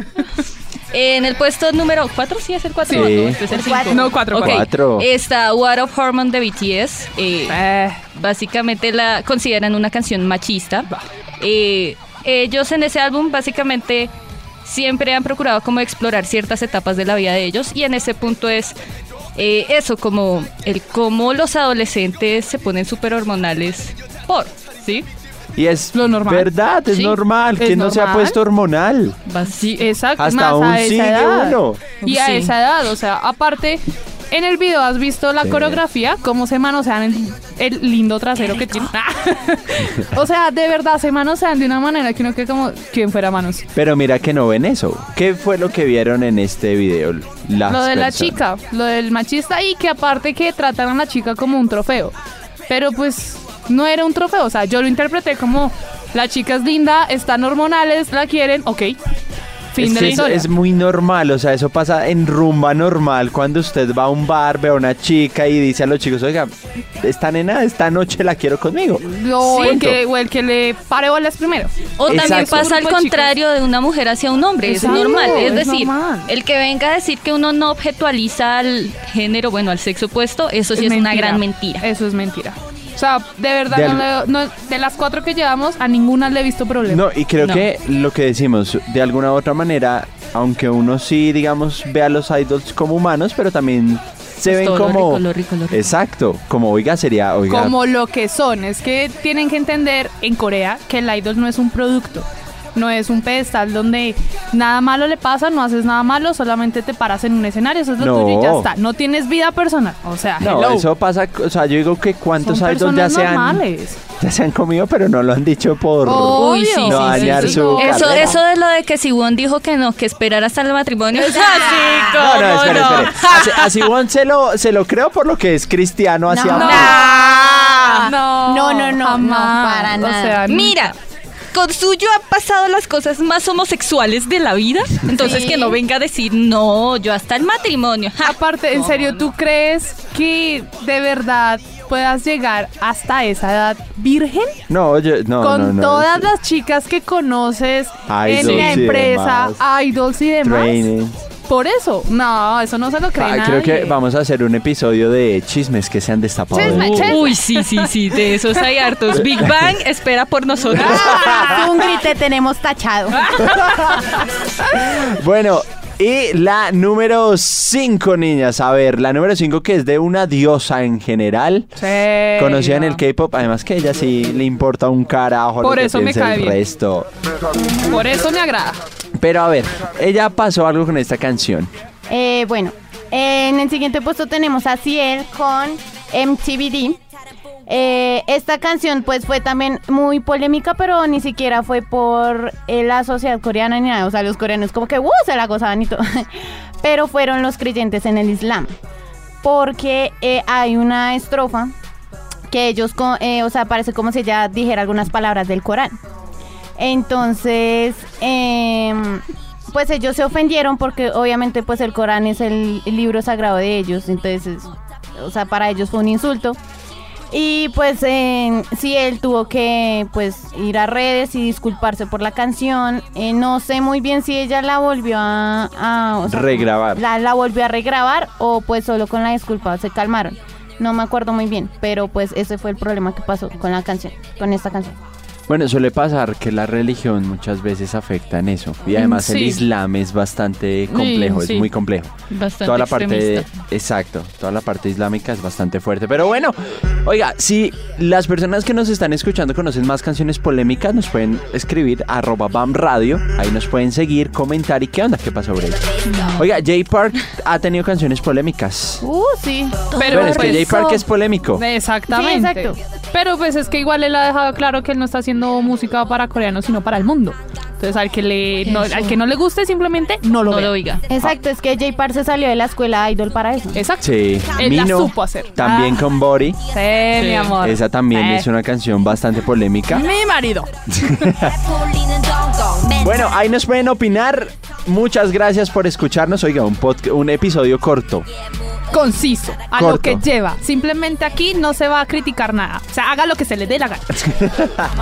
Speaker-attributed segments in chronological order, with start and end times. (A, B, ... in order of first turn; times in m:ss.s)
0:00.9-0:07.6 A
0:02.9-0:04.7 B
0:02.9-0:03.4 C
0:03.5-0:04.1 D
0:04.3-0:05.1 C
0:07.5-0:08.0 B
0:08.1-0:10.9 A
0:11.4-0:14.1 A
0:14.6-0:18.8 A
0:19.4-0:25.0 A
0:25.6-0:29.2 C
0:25.9-0:26.5 B
0:26.9-0:27.2 A
0:27.6-0:28.4 B
0:29.2-0:29.8 A
0:29.5-0:43.6 B
0:30.2-0:31.8 C
0:32.0-0:32.5 A
0:35.4-0:35.8 C
0:43.7-0:48.4 C
0:47.7-0:52.1 B
0:52.7-0:59.0 B
0:59.7-1:00.5 B
0:59.8-1:09.0 C
1:09.0-1:13.3 B
1:09.4-1:09.8 A
1:09.6-1:10.0 C
1:12.0-1:21.8 A
1:12.1-1:12.7 C
1:14.6-1:16.3 B
1:14.8-1:15.5 C
1:20.7-1:27.0 B
1:23.7-1:24.0 C
1:26.9-1:37.8 C
1:27.4-1:27.6 A
1:34.5-1:35.9 A
1:37.5-1:50.9 B
1:48.0-1:48.7 C
1:50.4-1:53.6 C
1:52.4-1:54.0 B
1:54.2-1:58.4 C
1:56.0-1:58.4 B
1:56.3-2:03.9 A
2:01.2-2:01.8 B
2:01.4-2:02.2 D
2:02.1-2:07.0 C
2:06.3-2:10.4 D
2:06.6-2:06.9 B
2:06.6-2:08.0 A
2:08.0-2:11.0 B
2:10.5-2:10.9 A
2:11.5-2:19.3 A
2:15.2-2:15.8 D
2:18.2-2:24.6 B
2:24.7-2:26.3 C
2:25.4-2:30.8 B
2:28.1-2:29.6 C
2:30.4-2:31.2 C
2:31.4-2:34.0 B
2:33.2-2:37.2 C
2:36.5-2:37.9 B
2:36.6-2:41.1 A
2:39.2-2:39.5 C
2:40.7-2:41.7 C
2:40.8-2:41.6 B
2:41.2-2:43.4 D
2:43.2-2:43.8 B
2:43.4-2:51.7 C
2:51.8-2:53.0 B
2:52.4-2:57.1 C
2:55.6-2:56.6 B
2:57.6-2:58.0 D
2:57.8-2:58.8 B
2:59.2-3:01.7 C
3:02.1-3:07.0 D
3:07.7-3:16.3 D
3:16.8-3:18.8 D
3:19.4-3:21.7 D
3:22.5-3:26.0 D
3:26.8-3:36.6 D
3:37.3-3:55.0 D
3:46.3-3:47.0 C
3:55.5-4:02.1 C
3:59.0-3:59.2 A
3:59.0-3:59.6 B
4:00.9-4:01.7 B
4:02.3-4:03.5 A
4:02.6-4:19.0 C
4:16.0-4:16.5 A
4:19.0-4:19.9 D
4:19.9-4:20.9 A
4:19.9-4:21.0 B
4:20.0-4:21.6 C
4:21.5-4:31.0 B
4:22.1-4:22.8 D
4:28.6-4:29.1 A
4:30.5-4:31.0 A
4:31.1-4:33.8 D
4:33.7-4:36.0 B
4:34.0-4:36.6 C
4:36.7-4:38.5 B
4:37.1-4:37.6 A
4:37.6-4:40.0 C
4:39.9-4:41.2 B
4:41.3-4:41.6 C
4:42.9-4:48.3 C
4:48.9-4:54.2 B
4:49.7-4:50.2 C
4:54.3-4:54.7 C